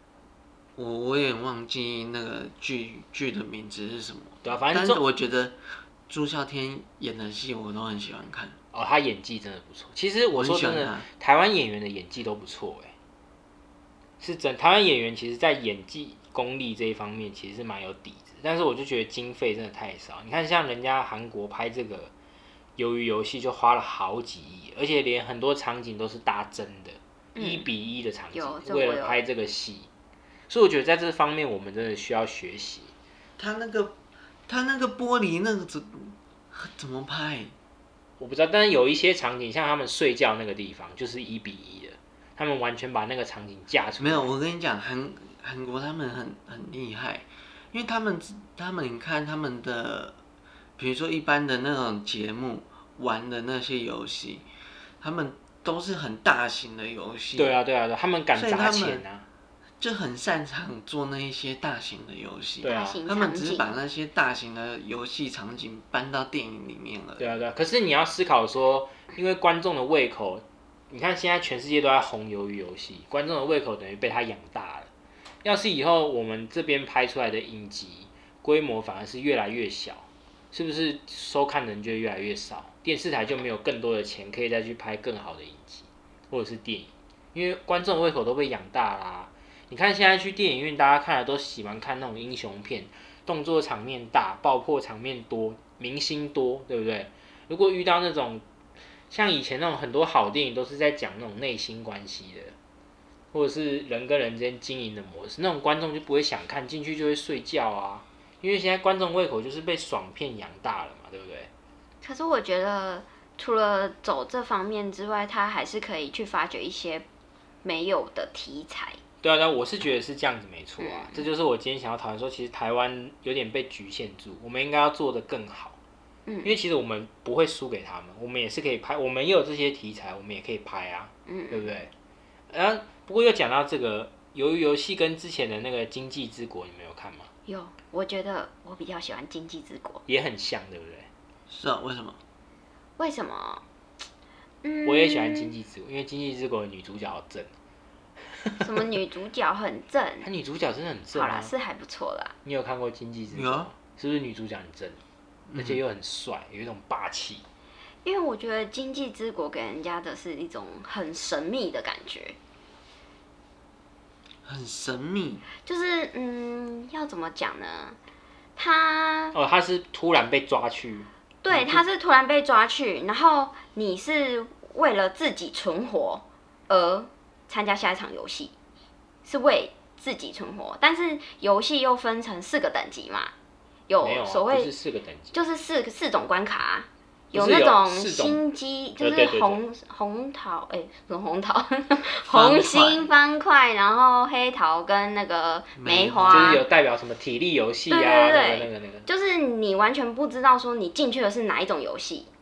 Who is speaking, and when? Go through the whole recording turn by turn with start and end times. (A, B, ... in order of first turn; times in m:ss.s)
0:00.8-0:08.6 A
0:04.4-0:05.0 B
0:08.7-0:12.9 B
0:10.3-0:11.1 A
0:14.2-0:22.1 B
0:22.8-0:29.9 B
0:27.4-0:27.7 C
0:28.3-0:29.2 C
0:30.5-0:32.9 B
0:33.4-0:34.0 A
0:34.5-0:37.5 A
0:38.2-0:44.3 B
0:44.0-0:50.2 A
0:50.8-0:54.4 A
0:55.0-0:57.6 A
0:57.4-0:59.3 B
0:58.3-0:59.1 A
0:59.8-1:07.4 A
1:02.6-1:03.0 B
1:02.6-1:03.7 C
1:07.2-1:14.9 B
1:15.4-1:38.4 B
1:39.1-1:42.5 B
1:43.3-1:51.5 B
1:52.0-1:57.1 C
1:57.6-1:59.0 C
1:59.2-2:05.8 B
2:00.8-2:01.2 C
2:06.3-2:06.5 C
2:06.4-2:11.9 B
2:11.3-2:11.7 C
2:12.5-2:17.3 B
2:17.5-2:20.0 C
2:20.1-2:21.1 B
2:21.5-2:22.2 A
2:23.0-2:23.6 C
2:24.6-2:25.5 C
2:24.8-2:27.5 B
2:28.6-2:30.3 C
2:30.2-2:31.5 B
2:31.1-2:32.3 C
2:32.4-2:35.0 B
2:33.3-2:33.7 A
2:35.5-2:35.8 A
2:35.6-2:37.4 B
2:38.0-2:42.4 C
2:44.5-2:45.4 A
2:45.6-2:48.0 C
2:48.6-2:49.4 C
2:49.3-2:51.8 B
2:51.4-2:58.5 C
2:59.2-3:03.3 C
3:03.9-3:04.7 C
3:04.0-3:05.4 B
3:05.3-3:16.6 C
3:07.3-3:08.4 B
3:09.0-3:09.6 B
3:12.2-3:13.1 A
3:15.8-3:16.6 A
3:16.3-3:19.1 B
3:17.9-3:22.3 C